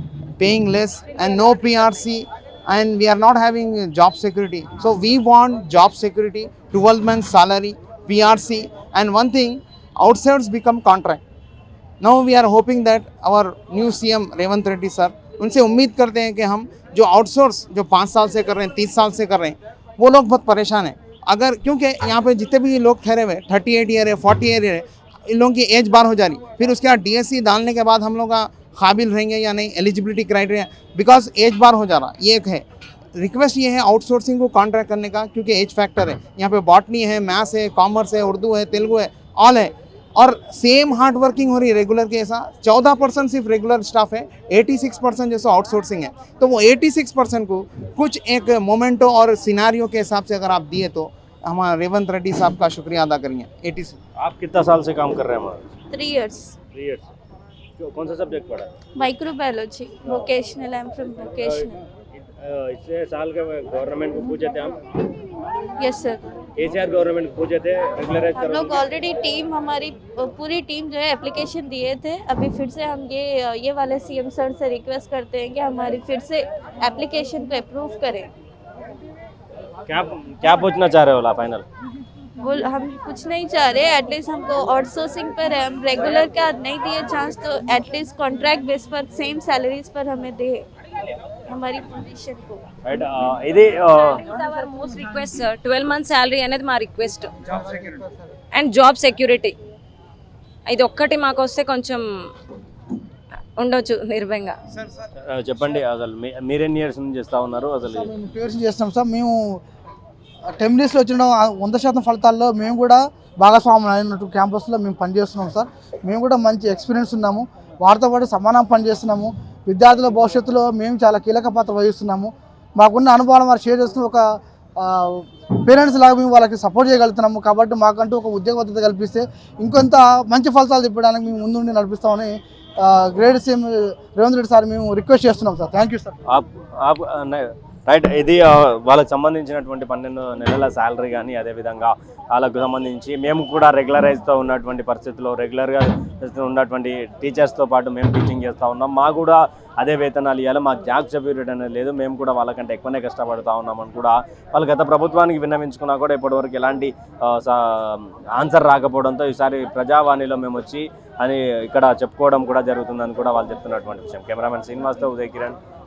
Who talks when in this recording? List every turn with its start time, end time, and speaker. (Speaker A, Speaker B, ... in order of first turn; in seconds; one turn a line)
Speaker A: 0.4-11.2
Speaker A: 12.0-32.6
Speaker A: 33.2-54.0
Speaker B: 54.2-55.8
Speaker C: 55.9-56.6
Speaker B: 56.7-57.1
Speaker B: 57.8-58.7
Speaker C: 59.0-61.8
Speaker B: 62.2-64.8
Speaker C: 65.8-66.2
Speaker B: 66.6-68.8
Speaker C: 68.4-78.3
Speaker B: 79.9-81.7
Speaker C: 82.4-90.7
Speaker C: 91.5-92.7
Speaker B: 92.8-94.2
Speaker D: 94.1-97.3
Speaker A: 97.5-97.9
Speaker D: 98.5-99.5
Speaker D: 100.7-102.3
Speaker D: 103.6-104.6
Speaker A: 104.7-105.1
Speaker B: 105.2-108.1
Speaker E: 107.8-109.6
Speaker E: 110.6-136.2
Speaker B: 136.3-165.6